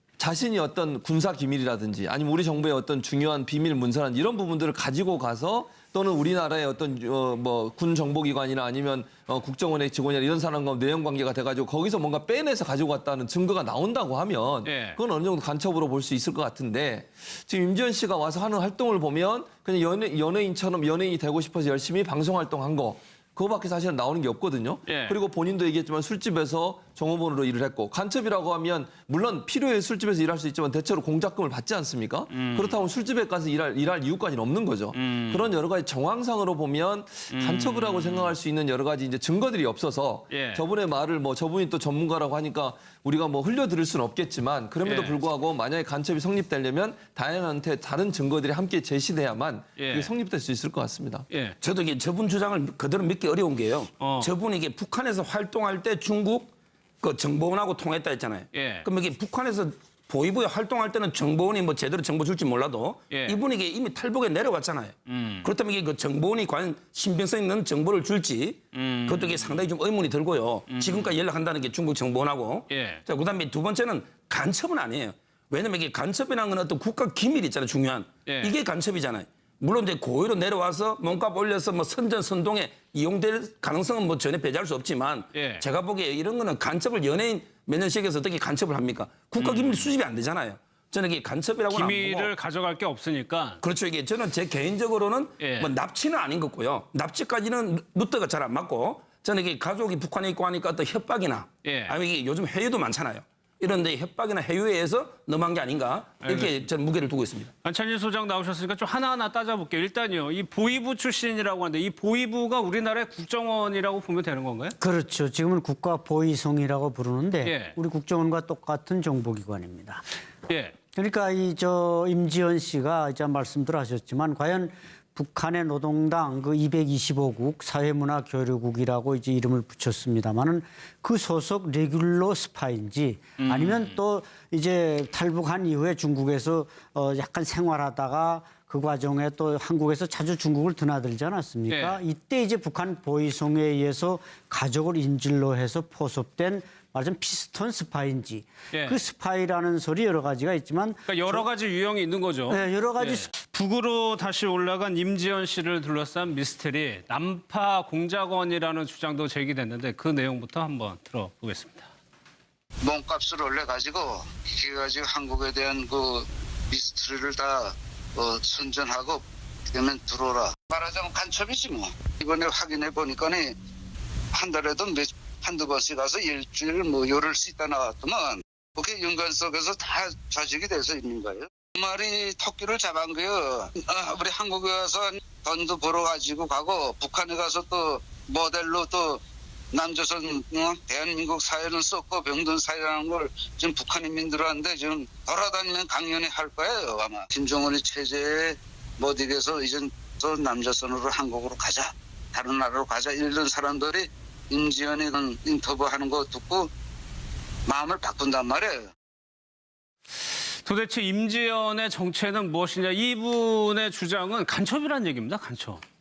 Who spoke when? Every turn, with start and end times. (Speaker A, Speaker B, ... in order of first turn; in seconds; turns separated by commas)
Speaker A: 0.2-51.3, Speaker B: 14.6-15.0, Speaker B: 24.9-25.2, Speaker B: 32.3-32.8, Speaker B: 34.9-35.5, Speaker B: 37.3-38.3, Speaker B: 40.3-40.6, Speaker B: 44.8-45.1, Speaker B: 49.8-50.1, Speaker B: 51.3-51.5, Speaker C: 51.6-92.3, Speaker B: 54.0-54.3, Speaker B: 58.5-58.9, Speaker B: 63.1-63.4, Speaker B: 65.1-65.5, Speaker B: 68.7-69.6, Speaker B: 70.7-71.1, Speaker B: 72.7-73.0, Speaker B: 78.2-78.5, Speaker B: 85.3-85.6, Speaker B: 89.4-89.9, Speaker B: 91.7-93.6, Speaker C: 93.6-107.5, Speaker B: 95.4-95.7, Speaker B: 101.6-101.9, Speaker B: 106.2-106.6, Speaker B: 107.6-114.8, Speaker D: 114.8-120.0, Speaker B: 117.4-117.8, Speaker B: 120.5-120.7, Speaker D: 120.9-151.4, Speaker B: 133.4-134.0, Speaker B: 141.7-142.0, Speaker B: 148.7-149.0, Speaker B: 151.1-161.9, Speaker D: 152.5-153.3, Speaker E: 162.8-173.5, Speaker E: 174.3-189.2, Speaker E: 189.7-206.7, Speaker E: 207.7-208.9, Speaker B: 210.6-215.8